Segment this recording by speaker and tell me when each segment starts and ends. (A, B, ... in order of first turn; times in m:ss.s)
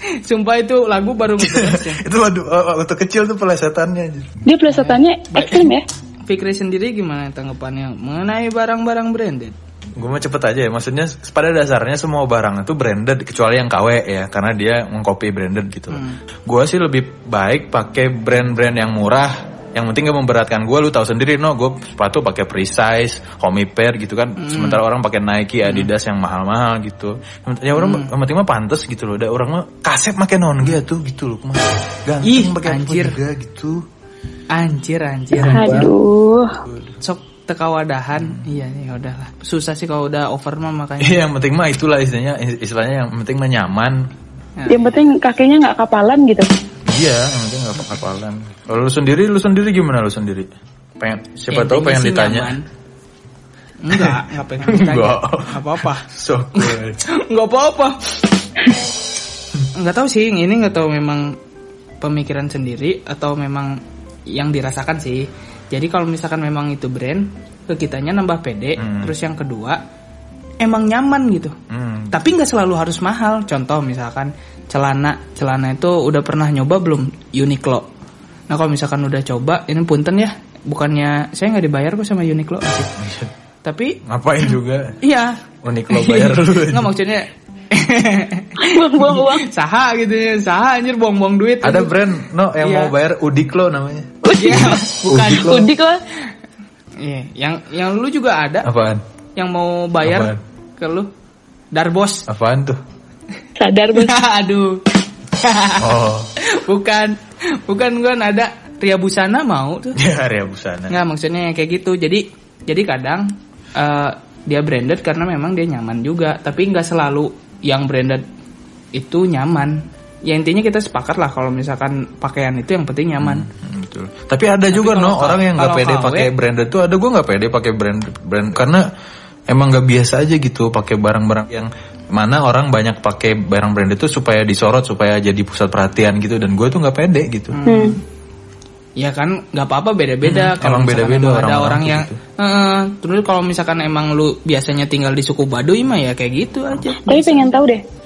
0:00.2-0:02.0 A
0:01.4-0:04.3 B
0:04.5-0:05.8 C
0:04.7-0:05.7 A
0:06.3-0:09.6 A
0:10.0-0:33.8 B
0:15.9-0:16.2 A
0:24.4-0:24.8 A
0:25.6-0:25.9 A
0:27.8-0:28.1 A
0:32.2-0:33.2 A
0:34.5-0:35.9 A
0:35.3-0:35.9 B
0:35.5-0:36.6 C
0:36.6-0:37.0 B
0:37.0-0:41.2 A
0:41.0-0:44.0 B
0:44.6-0:44.9 A
0:44.7-0:46.5 C
0:46.9-0:50.5 B
0:51.0-0:52.6 B
0:51.5-0:52.6 A
0:53.8-0:58.0 A
0:53.9-0:57.0 B
0:59.7-1:01.4 A
1:02.0-1:03.7 A
1:04.3-1:09.8 A
1:08.8-1:09.1 B
1:10.6-1:11.6 A
1:11.7-1:12.2 B
1:12.1-1:17.9 A
1:18.5-1:22.9 A
1:23.0-1:23.3 B
1:23.6-1:24.0 A
1:24.0-1:25.0 B
1:25.0-1:25.3 A
1:25.6-1:26.9 B
1:25.9-1:31.9 A
1:28.6-1:29.4 C
1:31.6-1:35.6 B
1:32.6-1:32.9 A
1:34.2-1:36.0 C
1:34.3-1:35.5 A
1:37.0-1:38.7 A
1:38.6-1:39.0 B
1:39.4-1:41.1 A
1:40.0-1:40.4 B
1:41.7-1:42.2 A
1:42.3-1:42.8 B
1:43.6-1:44.1 C
1:43.9-1:44.8 A
1:45.4-1:50.0 A
1:45.8-1:46.3 B
1:49.9-1:51.0 B
1:50.9-1:58.2 A
1:58.9-2:03.4 A
2:03.2-2:08.9 B
2:04.7-2:06.3 A
2:09.5-2:17.6 B
2:17.5-2:18.0 A
2:17.7-2:18.0 C
2:19.0-2:27.6 A
2:20.2-2:22.2 B
2:27.0-2:27.8 C